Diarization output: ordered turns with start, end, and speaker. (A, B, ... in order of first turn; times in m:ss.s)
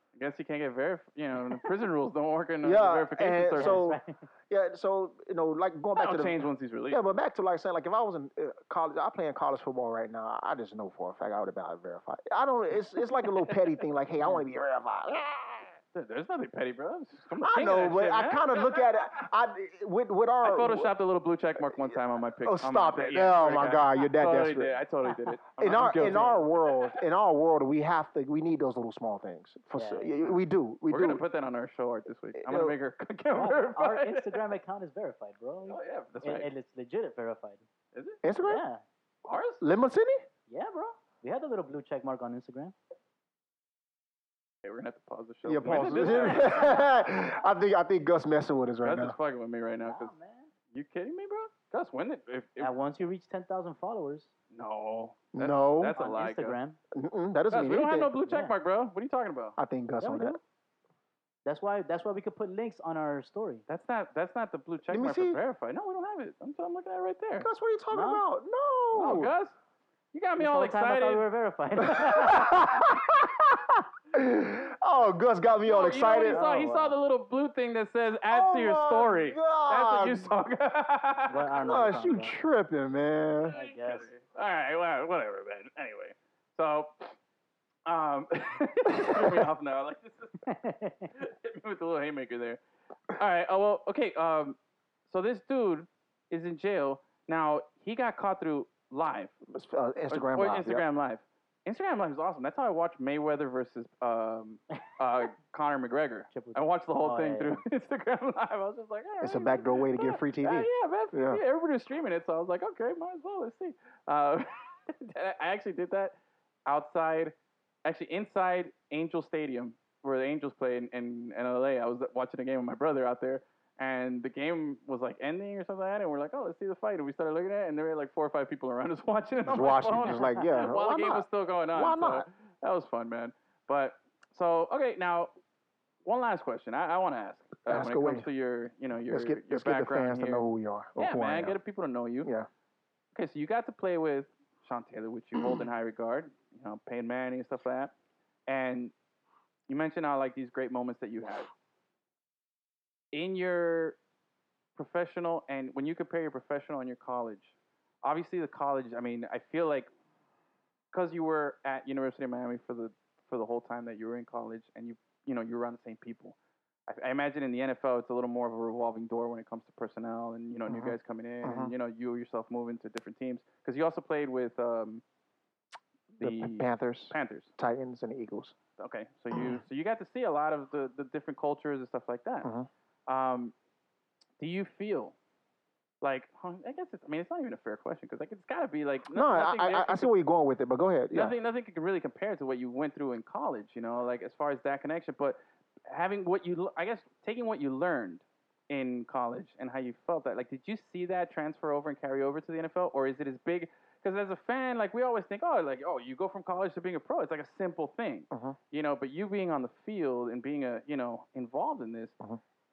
0:00.2-0:03.8 A
0:02.6-0:04.0 B
0:03.6-0:04.3 C
0:04.5-0:15.8 B
0:06.0-0:07.0 A
0:15.9-0:19.1 A
0:17.4-0:20.9 B
0:20.4-0:26.4 A
0:21.8-0:24.8 B
0:25.6-0:31.2 B
0:29.8-0:30.2 C
0:30.9-0:34.4 A
0:32.4-0:32.8 B
0:33.3-0:37.6 C
0:35.7-0:36.5 A
0:37.9-0:38.2 A
0:38.2-0:38.6 B
0:38.4-0:38.8 C
0:39.2-0:39.6 A
0:39.6-0:40.2 B
0:40.5-0:42.8 C
0:44.6-0:46.8 A
0:45.5-0:49.2 B
0:45.6-0:46.9 C
0:48.8-0:50.1 A
0:49.8-0:50.5 C
0:50.7-0:52.7 A
0:52.6-0:54.3 C
0:54.5-0:56.6 A
0:55.3-0:56.0 B
0:55.9-0:56.8 C
0:56.9-0:58.1 B
0:57.5-0:59.6 A
0:59.6-1:00.4 B
1:00.0-1:00.4 C
1:01.4-1:03.6 C
1:03.7-1:07.5 A
1:04.9-1:05.4 B
1:07.4-1:09.3 B
1:07.9-1:08.2 C
1:08.9-1:09.6 A
1:10.1-1:11.3 A
1:10.4-1:12.9 C
1:11.8-1:16.4 B
1:15.6-1:21.5 A
1:16.3-1:17.0 C
1:18.3-1:20.3 B
1:21.3-1:22.4 C
1:21.6-1:23.6 B
1:23.5-1:27.2 A
1:23.5-1:24.1 C
1:27.9-1:30.4 A
1:29.0-1:29.3 B
1:30.4-1:31.1 C
1:31.1-1:32.6 A
1:33.1-1:34.6 A
1:35.1-1:39.4 A
1:39.5-1:40.8 B
1:40.1-1:56.2 A
1:46.3-1:47.6 C
1:49.2-1:51.4 B
1:56.7-1:57.3 A
1:57.8-2:15.3 A
2:09.4-2:12.3 B
2:16.0-2:22.3 A
2:17.7-2:18.3 B
2:19.1-2:21.6 B
2:22.2-2:22.5 B
2:23.2-2:27.9 A
2:28.5-2:28.9 A
2:29.7-2:31.5 A
2:33.1-2:34.0 A
2:34.8-2:39.9 A
2:40.9-2:46.4 A
2:46.9-2:55.0 A
2:50.7-2:51.7 B
2:56.2-2:57.5 A
2:56.2-2:58.6 B
2:58.8-3:02.5 A
2:59.3-2:59.6 B
3:02.4-3:02.7 B
3:03.1-3:03.5 A
3:04.4-3:05.2 A
3:06.0-3:10.1 A
3:09.1-3:11.4 B
3:11.1-3:32.1 A
3:28.3-3:28.6 B